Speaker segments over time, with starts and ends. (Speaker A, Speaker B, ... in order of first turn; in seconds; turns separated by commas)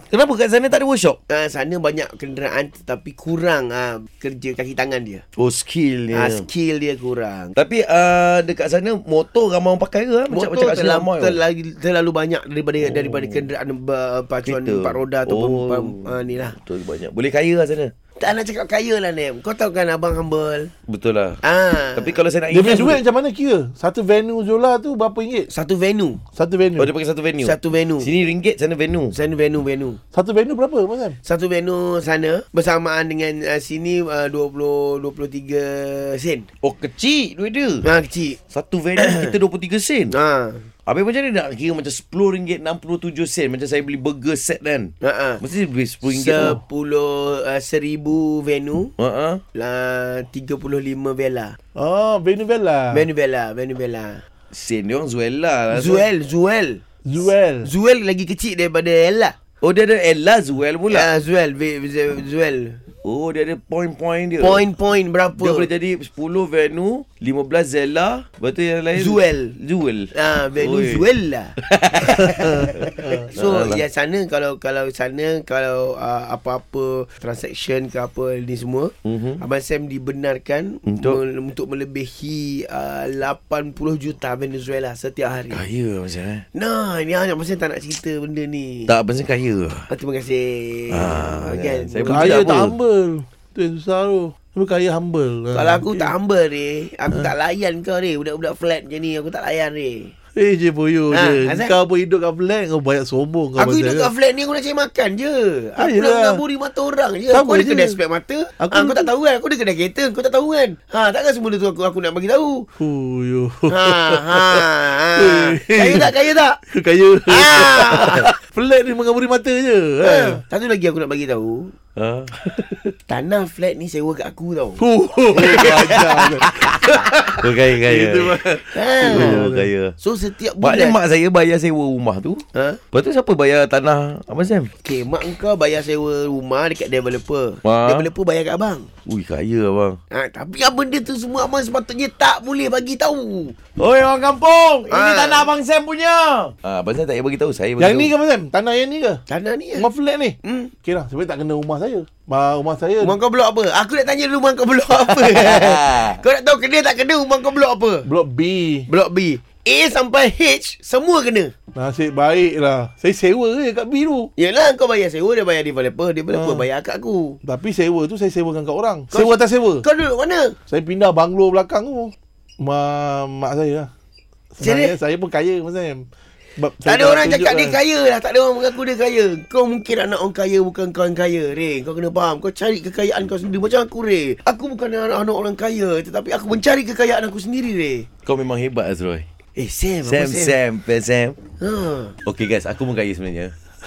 Speaker A: 0.1-1.2, Speaker B: 1.3-5.2, Speaker A: 5.4-6.5, Speaker B: 6.1-7.5, Speaker A: 7.6-11.4, Speaker B: 10.3-16.6, Speaker A: 12.8-13.5, Speaker A: 14.4-17.9, Speaker B: 18.2-20.7, Speaker A: 20.9-21.4, Speaker B: 21.4-22.2, Speaker A: 21.9-23.0, Speaker C: 22.5-25.5, Speaker B: 25.5-26.2, Speaker C: 26.3-26.9, Speaker A: 26.8-29.1, Speaker B: 27.4-28.1, Speaker B: 29.1-30.0, Speaker C: 30.1-31.2, Speaker B: 31.2-36.5, Speaker A: 36.6-37.8, Speaker B: 37.8-38.4, Speaker A: 38.5-40.1, Speaker B: 39.0-39.3, Speaker B: 40.1-40.7, Speaker A: 40.9-46.6, Speaker B: 45.0-45.4, Speaker B: 46.0-48.9, Speaker A: 49.0-49.4, Speaker B: 49.5-51.6, Speaker C: 51.8-53.0, Speaker B: 52.9-54.2, Speaker A: 54.5-56.0, Speaker B: 55.7-56.8, Speaker C: 57.0-57.7, Speaker B: 57.6-59.3, Speaker A: 59.6-61.1, Speaker B: 60.9-62.8, Speaker A: 63.0-64.6, Speaker B: 64.4-65.7, Speaker A: 65.3-71.0, Speaker B: 68.9-69.5, Speaker B: 70.1-71.5, Speaker A: 71.6-73.8, Speaker B: 72.1-85.6, Speaker A: 79.0-79.4, Speaker A: 80.9-81.2, Speaker A: 85.5-86.4, Speaker B: 86.5-88.9, Speaker A: 88.9-89.9, Speaker B: 89.9-92.7, Speaker A: 90.9-92.7, Speaker C: 92.0-96.1, Speaker B: 95.5-100.1, Speaker C: 100.3-104.1, Speaker B: 101.1-101.8, Speaker B: 103.6-112.7, Speaker C: 105.8-106.4, Speaker C: 107.3-108.0, Speaker C: 108.6-109.1, Speaker C: 112.8-116.1, Speaker B: 113.7-116.6, Speaker C: 116.7-120.4, Speaker B: 117.3-118.3, Speaker B: 120.0-121.7, Speaker A: 122.0-122.9, Speaker B: 123.1-124.8, Speaker C: 124.8-129.7, Speaker B: 125.3-126.6, Speaker A: 125.3-128.4, Speaker B: 128.7-129.5, Speaker A: 129.0-129.9, Speaker B: 130.0-131.0, Speaker A: 130.6-134.7, Speaker B: 132.5-132.8, Speaker B: 134.8-138.9, Speaker A: 137.6-138.1, Speaker A: 139.1-140.0, Speaker B: 140.1-143.6, Speaker A: 143.8-148.1, Speaker B: 144.9-145.5, Speaker C: 147.8-149.2, Speaker B: 149.3-149.9, Speaker C: 149.8-153.2, Speaker B: 150.4-150.7, Speaker B: 153.0-158.1, Speaker A: 155.0-156.2, Speaker C: 158.1-158.9, Speaker B: 158.9-161.5, Speaker C: 161.8-164.3, Speaker B: 164.4-167.4, Speaker C: 166.3-166.7, Speaker C: 167.4-169.8, Speaker B: 169.1-170.6, Speaker C: 170.7-173.9, Speaker C: 174.6-176.1, Speaker B: 174.6-174.9, Speaker C: 176.6-177.8, Speaker B: 176.8-188.1, Speaker A: 188.2-189.2, Speaker B: 189.6-190.6, Speaker A: 190.0-191.4, Speaker B: 191.6-192.2, Speaker A: 192.2-193.5